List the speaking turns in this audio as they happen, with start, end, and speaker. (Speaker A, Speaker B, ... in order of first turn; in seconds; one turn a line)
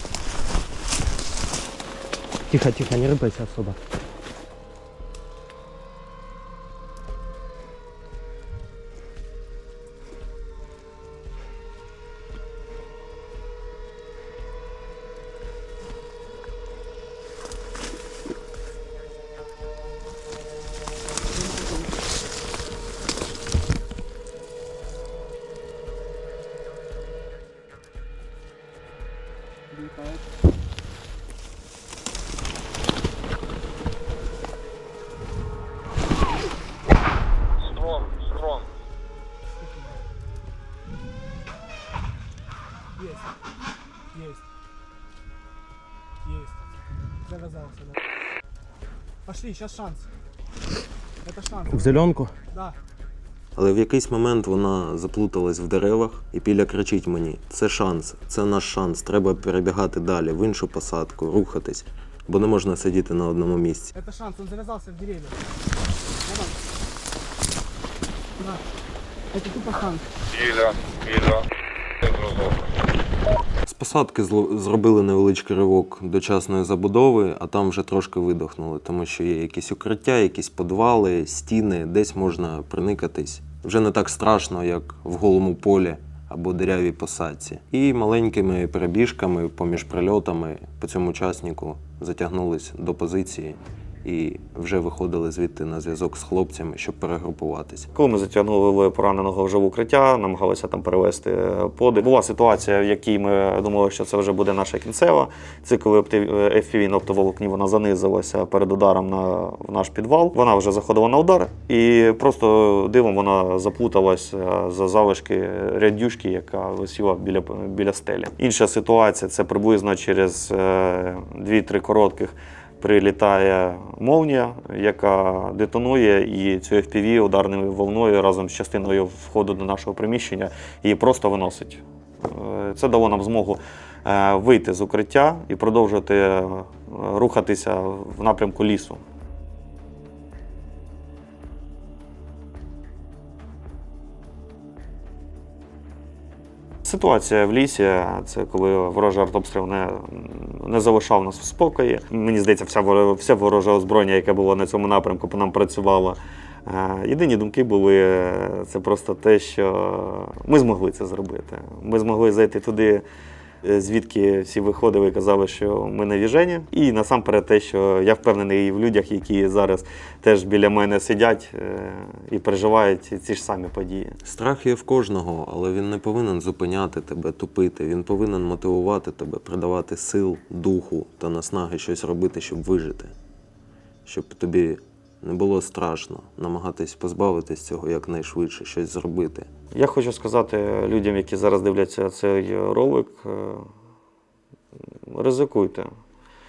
Speaker A: 2.5-3.8
Speaker B: 37.8-38.6
Speaker B: 43.0-43.3
Speaker B: 44.1-44.4
Speaker B: 46.2-46.5
Speaker B: 47.2-48.0
Speaker B: 49.2-50.1
Speaker B: 51.2-52.8
Speaker A: 51.7-52.3
Speaker C: 53.5-63.9
Speaker B: 63.9-65.4
Speaker B: 66.2-66.6
Speaker B: 69.3-71.4
Speaker C: 73.7-97.9
Speaker D: 97.9-139.0
Speaker D: 146.8-163.0
Speaker D: 163.6-174.2
Speaker C: 174.2-183.1
Speaker C: 184.1-189.5
Speaker D: 189.7-193.7
Speaker D: 195.1-195.9